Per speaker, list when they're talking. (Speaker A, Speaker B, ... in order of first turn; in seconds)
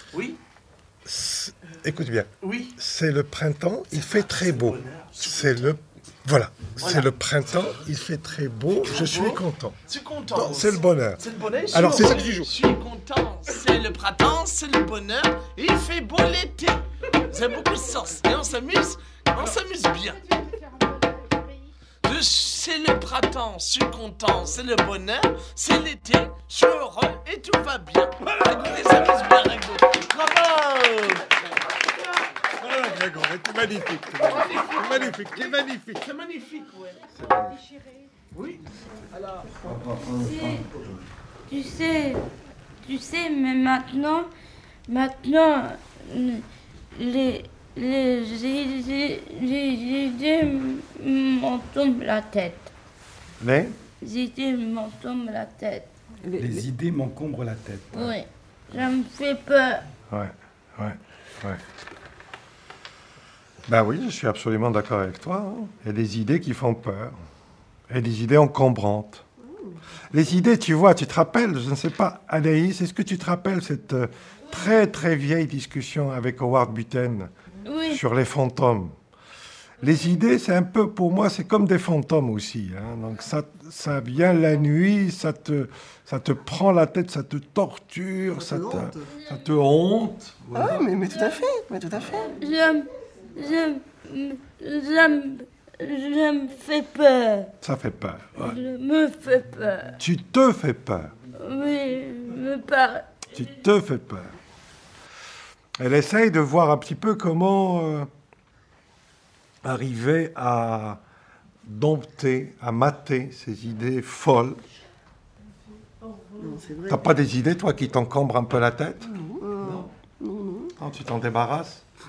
Speaker A: 0.1-0.4, 2.4-2.7, 3.9-5.7, 6.8-7.1, 8.8-20.3, 22.0-31.3, 34.2-37.0, 38.3-39.5
Speaker B: 1.0-9.8, 10.3-12.5, 28.2-29.3, 32.5-36.0, 37.1-37.6, 53.4-53.8, 60.1-61.6, 63.7-67.2, 67.9-69.2, 70.1-77.3, 77.9-79.0, 79.8-90.9, 97.6-98.6, 100.0-101.1, 103.3-104.3, 105.8-108.1, 109.6-111.0, 111.6-114.6, 116.9-119.9, 120.8-121.8
Speaker C: 39.7-40.5, 56.3-58.1
Speaker D: 40.1-40.6, 41.5-42.2, 42.8-44.3, 44.9-46.4, 46.9-52.7, 54.0-55.9, 57.9-59.8, 77.7-78.0, 92.4-97.5, 98.4-100.0, 101.3-103.0
Speaker E: 88.3-89.1, 90.5-92.3, 116.4-117.1, 119.0-120.7